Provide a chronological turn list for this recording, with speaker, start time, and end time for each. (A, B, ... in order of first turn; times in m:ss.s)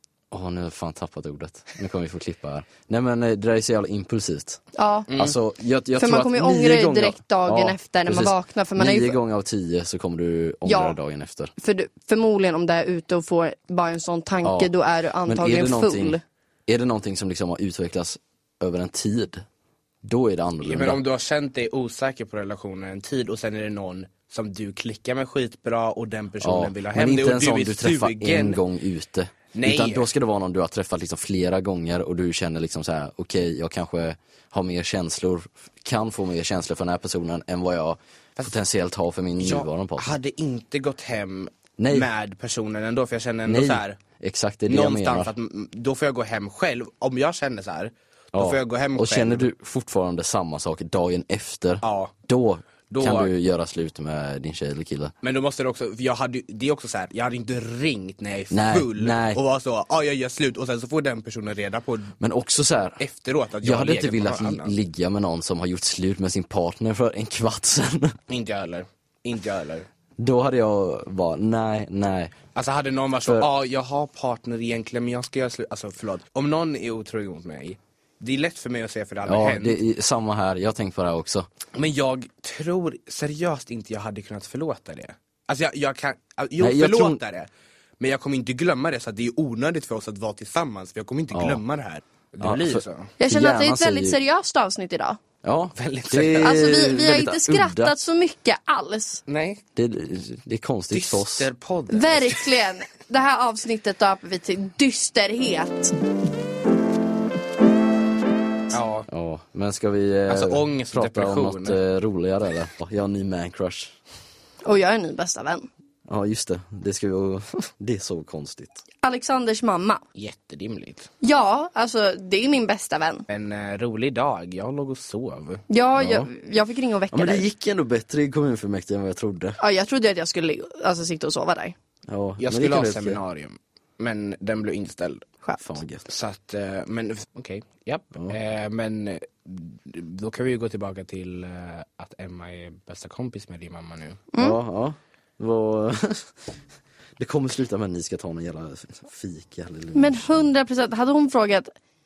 0:00.3-0:04.6 A
0:04.8-0:05.1 B
0:05.1-0:05.3 C
0:05.2-0:11.5 A
0:06.0-0:09.2 B
0:10.6-0:11.0 B
0:11.6-0:16.2 B
0:14.4-0:14.7 A
0:15.2-0:19.4 A
0:20.0-0:21.0 A
0:20.6-0:28.6 C
0:26.4-0:40.1 A
0:29.5-0:30.1 C
0:39.4-0:44.0 C
0:41.8-0:42.1 A
0:43.5-0:45.3 A
0:44.7-0:49.5 C
0:48.3-0:55.1 A
0:51.8-0:52.1 C
0:52.9-0:53.3 C
0:55.2-1:02.2 C
0:58.5-0:59.4 A
1:02.2-1:03.0 A
1:03.0-1:04.7 C
1:03.6-1:08.2 A
1:08.3-1:09.9 C
1:10.2-1:12.3 A
1:12.5-1:19.8 C
1:19.2-1:21.5 A
1:21.7-1:27.5 C
1:26.6-1:27.2 A
1:28.0-1:33.1 C
1:31.3-1:31.6 A
1:32.4-1:34.2 A
1:33.2-1:35.2 B
1:35.4-1:37.9 A
1:35.7-1:36.6 C
1:36.4-1:39.2 B
1:39.3-1:39.6 C
1:39.7-1:41.5 A
1:40.9-1:42.5 C
1:41.9-1:45.9 B
1:48.7-1:49.1 C
1:49.1-1:53.9 A
1:50.3-1:51.8 C
1:54.6-1:55.7 B
1:56.1-1:58.8 A
1:59.0-2:00.0 B
2:00.1-2:01.1 C
2:01.2-2:03.2 B
2:03.3-2:05.6 C
2:05.7-2:07.4 B
2:06.0-2:06.3 A
2:07.1-2:09.6 A
2:09.6-2:11.7 B
2:12.1-2:13.2 A
2:12.4-2:15.3 C
2:15.6-2:16.0 A
2:16.0-2:24.2 C
2:24.3-2:24.6 B
2:24.4-2:26.5 A
2:27.2-2:30.4 A
2:29.9-2:31.7 B